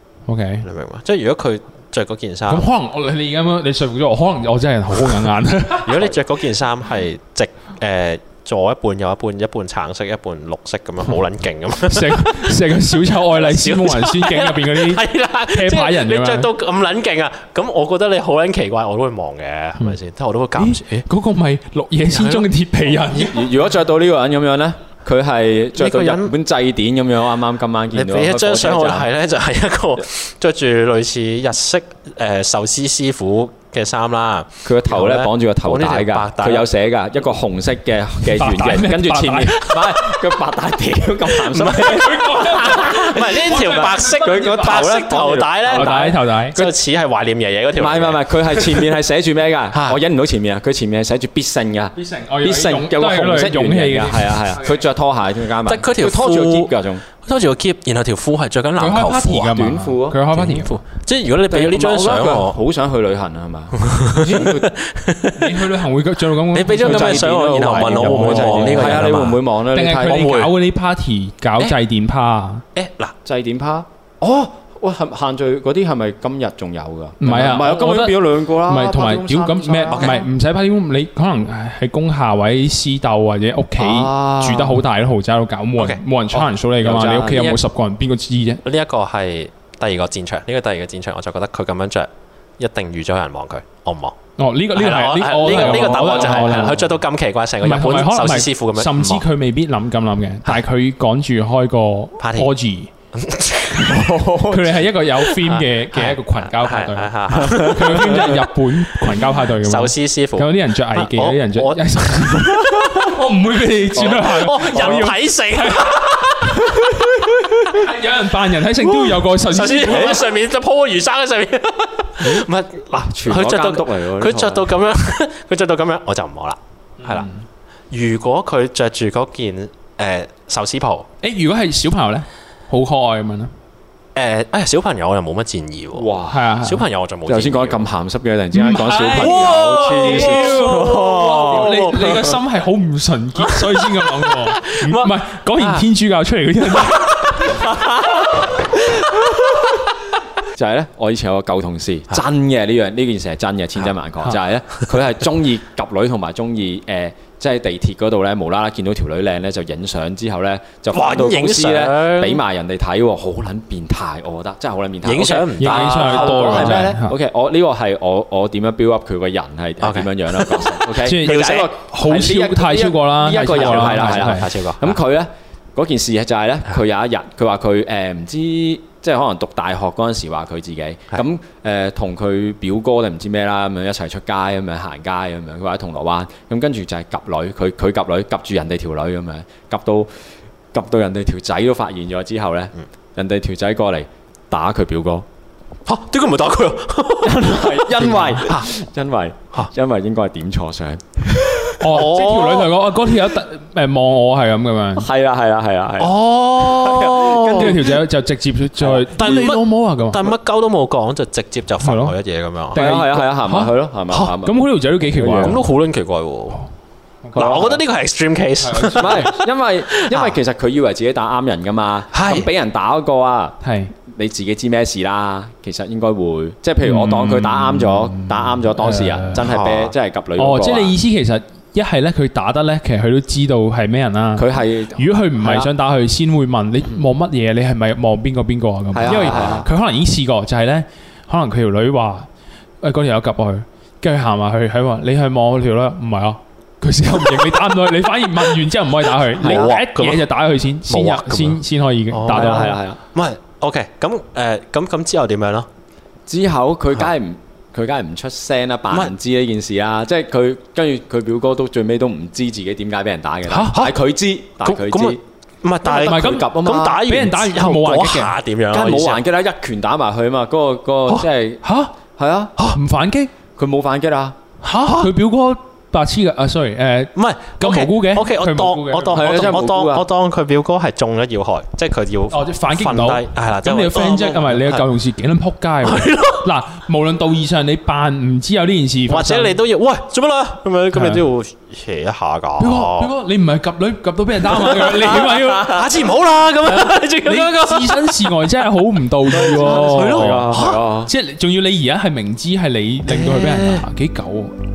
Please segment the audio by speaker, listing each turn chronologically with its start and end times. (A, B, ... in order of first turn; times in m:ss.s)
0:00.3-0:00.6 A
0:00.6-0:02.6 B
0:02.5-0:06.0 A
0:05.8-0:12.7 B
0:11.9-0:16.5 A
0:13.3-0:21.0 B
0:20.6-0:23.5 A
0:22.1-0:22.5 B
0:23.2-0:29.1 C
0:25.8-0:26.3 B
0:27.9-0:36.7 B
0:34.6-0:46.7 C
0:38.2-0:39.7 A
0:39.7-0:40.2 B
0:41.3-0:48.9 B
0:41.8-0:45.0 A
0:45.6-0:46.6 A
0:47.8-0:57.0 C
0:49.7-0:50.0 B
0:51.9-0:54.8 A
0:55.6-0:59.6 B
0:58.8-1:00.7 A
0:59.5-1:00.2 C
1:00.3-1:02.6 B
1:01.5-1:04.7 C
1:03.8-1:05.7 B
1:05.4-1:09.1 A
1:06.5-1:09.4 B
1:06.8-1:10.5 C
1:09.7-1:12.6 A
1:12.7-1:13.1 B
1:13.2-1:20.2 C
1:17.2-1:28.6 A
1:19.9-1:20.2 B
1:23.8-1:24.8 C
1:26.8-1:27.6 C
1:28.6-1:34.1 B
1:34.4-1:36.9 A
1:34.7-1:39.2 B
1:35.5-1:36.8 C
1:37.6-1:42.9 A
1:42.2-1:42.5 B
1:43.1-1:44.2 B
1:43.8-1:44.8 C
1:44.4-1:56.0 A
1:45.3-1:48.4 B
1:47.3-1:48.3 C
1:49.0-1:53.2 B
1:53.9-1:57.1 B
1:54.0-1:54.2 C
1:54.7-1:55.0 C
1:57.2-2:00.3 A
1:58.9-2:07.3 B
2:02.9-2:04.7 C
2:07.0-2:07.4 A
2:07.9-2:11.1 B
2:11.2-2:13.5 A
2:14.1-2:16.1 B
2:15.9-2:16.4 C
2:16.3-2:16.8 A
2:16.6-2:17.9 B
2:17.2-2:22.3 C
2:18.5-2:27.6 A
2:18.7-2:22.2 B
2:23.5-2:25.8 B
2:26.8-2:28.3 B
2:30.5-3:10.1 C
2:40.9-2:42.4 B
2:45.0-2:46.9 B
2:45.6-2:47.2 A
2:49.8-2:51.7 B
2:51.0-2:54.5 A
2:53.4-2:55.0 B
3:10.7-3:15.3 C
3:15.8-3:18.7 B
3:17.2-3:21.9 C
3:21.8-3:25.1 A
3:21.9-3:22.7 B
3:25.0-3:27.9 C
3:26.0-3:27.9 B
3:27.5-3:30.3 A
3:29.2-3:32.8 B
3:31.8-3:32.1 A
3:32.7-3:33.7 A
3:32.7-3:35.6 C
3:34.3-3:35.6 A
3:35.4-3:36.6 B
3:37.2-3:37.8 A
3:37.3-3:37.8 C
3:37.3-3:39.4 B
3:38.6-3:39.3 A
3:39.0-3:50.9 C
3:39.9-3:40.4 B
3:42.1-3:42.5 B
3:43.6-3:43.9 A
3:46.8-3:49.4 A
3:49.3-3:49.9 B
3:50.4-4:02.3 A
3:54.4-3:55.7 C
3:58.9-3:59.7 C
3:59.0-3:59.6 B
4:02.8-4:12.7 A
4:09.4-4:10.3 B
4:09.4-4:09.7 C
4:10.9-4:15.7 B
4:12.3-4:13.0 C
4:16.3-4:25.2 C
4:23.5-4:23.8 A
4:23.6-4:24.0 B
4:24.6-4:29.2 B
4:25.8-4:27.0 C
4:25.9-4:28.3 A
4:28.7-4:31.6 C
4:31.6-4:31.9 A
4:32.1-4:32.5 C
4:32.7-4:33.3 A
4:33.6-4:34.4 C
4:34.6-4:35.1 B
4:35.0-4:39.6 A
4:37.2-4:44.8 B
4:39.1-4:40.1 C
4:42.3-4:49.6 A
4:45.8-4:46.4 B
4:49.1-4:53.1 B
4:50.9-4:51.2 A
4:52.6-4:55.9 A
4:54.5-4:58.3 B
4:56.7-5:00.5 A
4:59.3-5:01.1 C
4:59.3-5:00.8 B
5:01.0-5:04.5 A
5:03.1-5:03.8 B